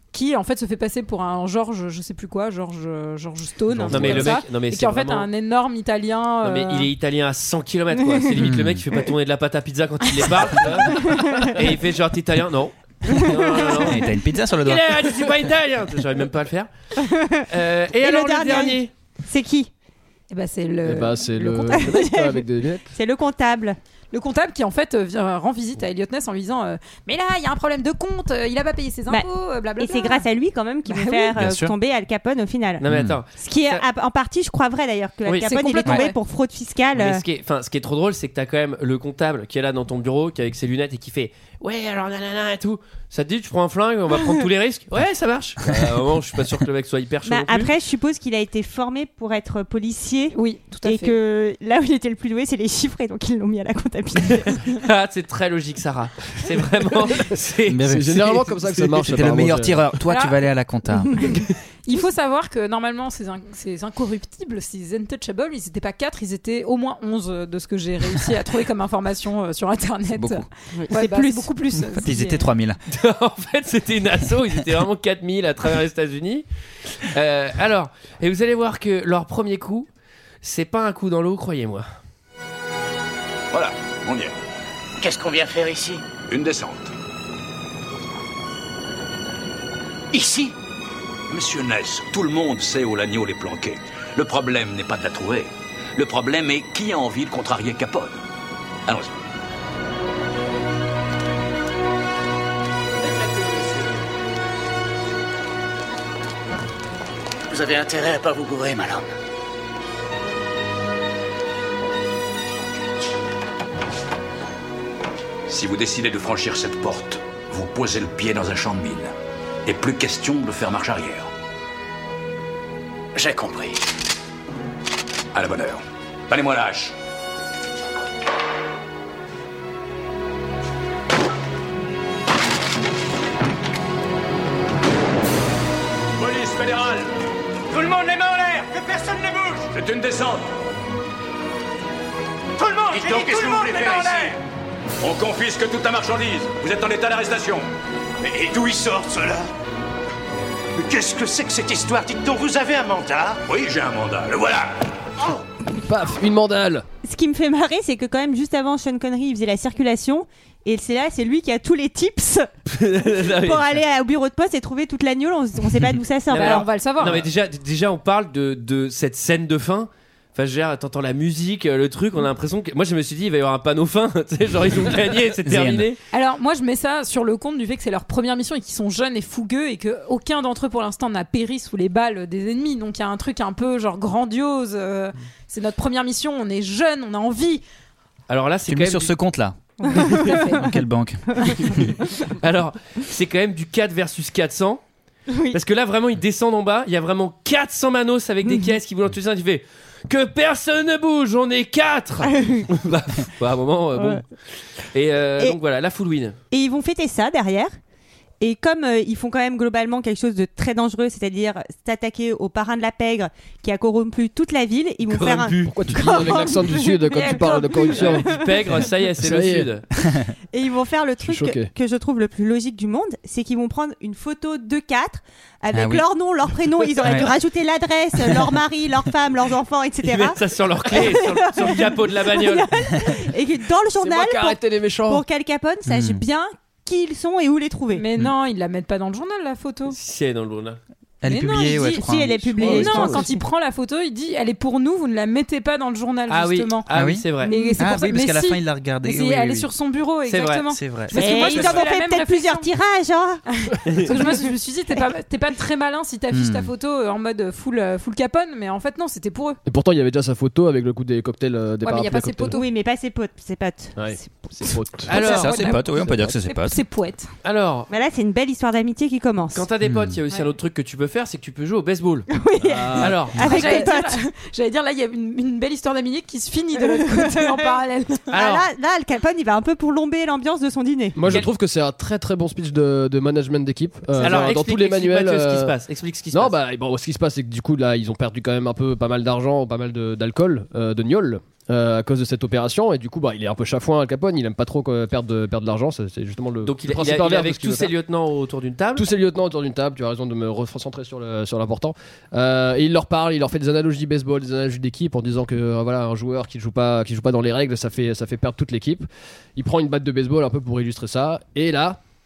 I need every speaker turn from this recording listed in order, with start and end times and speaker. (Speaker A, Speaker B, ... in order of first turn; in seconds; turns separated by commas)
Speaker A: 0.1-6.9, Speaker B: 3.8-4.4, Speaker C: 3.9-5.3, Speaker C: 6.4-14.1, Speaker B: 8.4-8.8, Speaker D: 11.1-11.4, Speaker B: 13.8-15.1, Speaker C: 14.6-16.7, Speaker D: 17.0-19.7, Speaker C: 17.5-18.9, Speaker A: 20.3-22.1, Speaker E: 20.9-22.9, Speaker D: 21.7-23.8, Speaker A: 24.1-30.2, Speaker D: 29.8-37.2, Speaker A: 30.9-31.4, Speaker B: 31.4-31.7, Speaker C: 32.8-33.8, Speaker B: 32.9-33.2, Speaker C: 35.3-35.5, Speaker A: 35.4-36.2, Speaker C: 36.9-47.7, Speaker D: 47.2-54.8, Speaker A: 50.3-51.2, Speaker C: 54.5-57.9, Speaker B: 57.7-61.4, Speaker E: 57.9-59.8, Speaker A: 60.1-60.4, Speaker A: 61.9-72.5, Speaker B: 70.2-70.5, Speaker D: 70.8-71.5, Speaker B: 72.0-72.8, Speaker C: 72.9-79.9, Speaker C: 80.4-81.9, Speaker F: 83.5-84.3, Speaker G: 85.0-86.1, Speaker F: 86.2-86.9, Speaker G: 90.1-90.5, Speaker F: 91.3-98.2, Speaker G: 107.5-109.1, Speaker F: 115.5-119.1, Speaker F: 119.7-121.3, Speaker G: 123.2-123.8, Speaker F: 125.3-127.0, Speaker F: 136.2-137.1, Speaker H: 137.7-139.6, Speaker F: 139.7-140.6, Speaker H: 142.6-144.3, Speaker F: 142.9-144.4, Speaker F: 145.0-147.7, Speaker F: 148.2-149.5, Speaker H: 150.9-153.4, Speaker F: 153.4-154.8, Speaker E: 155.7-156.9, Speaker D: 157.0-162.5, Speaker C: 162.7-163.8, Speaker D: 163.2-166.7, Speaker C: 166.3-176.0, Speaker A: 166.3-167.2, Speaker B: 175.5-175.9, Speaker A: 176.1-187.6, Speaker C: 188.3-189.1, Speaker B: 188.7-191.9, Speaker D: 189.9-190.7, Speaker A: 190.2-190.6, Speaker D: 191.3-191.8, Speaker C: 192.3-194.8, Speaker D: 195.3-195.6, Speaker C: 195.5-204.2, Speaker D: 198.4-198.7, Speaker D: 202.4-202.7, Speaker D: 204.0-204.2, Speaker C: 204.9-206.4, Speaker D: 206.5-207.7, Speaker D: 208.4-218.4, Speaker C: 215.1-216.2, Speaker E: 215.7-218.5, Speaker A: 217.2-217.8, Speaker C: 217.9-219.9, Speaker E: 219.2-219.7, Speaker B: 220.1-220.3, Speaker D: 220.5-238.1, Speaker E: 221.3-221.7, Speaker B: 225.7-226.0, Speaker B: 227.0-227.3, Speaker C: 230.0-232.7, Speaker E: 234.0-235.2, Speaker B: 235.9-236.2, Speaker A: 237.9-240.0, Speaker C: 239.9-240.8, Speaker B: 241.2-242.8, Speaker A: 241.3-246.9, Speaker D: 242.0-243.4, Speaker E: 242.6-243.3, Speaker C: 246.3-247.5, Speaker B: 246.9-249.7, Speaker A: 247.5-252.7, Speaker D: 247.5-247.8, Speaker C: 250.3-250.7, Speaker B: 250.7-251.5, Speaker D: 251.1-253.4, Speaker C: 251.4-251.7, Speaker A: 253.5-259.6, Speaker D: 254.1-254.3, Speaker B: 256.3-256.7, Speaker E: 259.7-262.6, Speaker A: 261.8-262.7, Speaker D: 262.5-264.7, Speaker E: 264.0-265.2, Speaker C: 265.1-265.6, Speaker A: 265.1-265.9, Speaker B: 265.2-266.8, Speaker E: 265.9-266.4, Speaker A: 266.4-267.3, Speaker C: 267.4-267.9, Speaker D: 267.9-269.7, Speaker C: 269.5-272.3, Speaker B: 269.8-270.2, Speaker D: 272.3-274.2, Speaker E: 272.6-273.5, Speaker C: 273.0-273.5, Speaker A: 273.4-278.3, Speaker D: 277.1-277.8, Speaker D: 278.3-281.2, Speaker C: 278.3-278.7, Speaker E: 281.1-285.8, Speaker C: 281.2-281.5, Speaker C: 284.2-286.6, Speaker D: 284.2-284.5, Speaker E: 286.3-297.9, Speaker C: 296.6-299.1, Speaker E: 299.0-312.0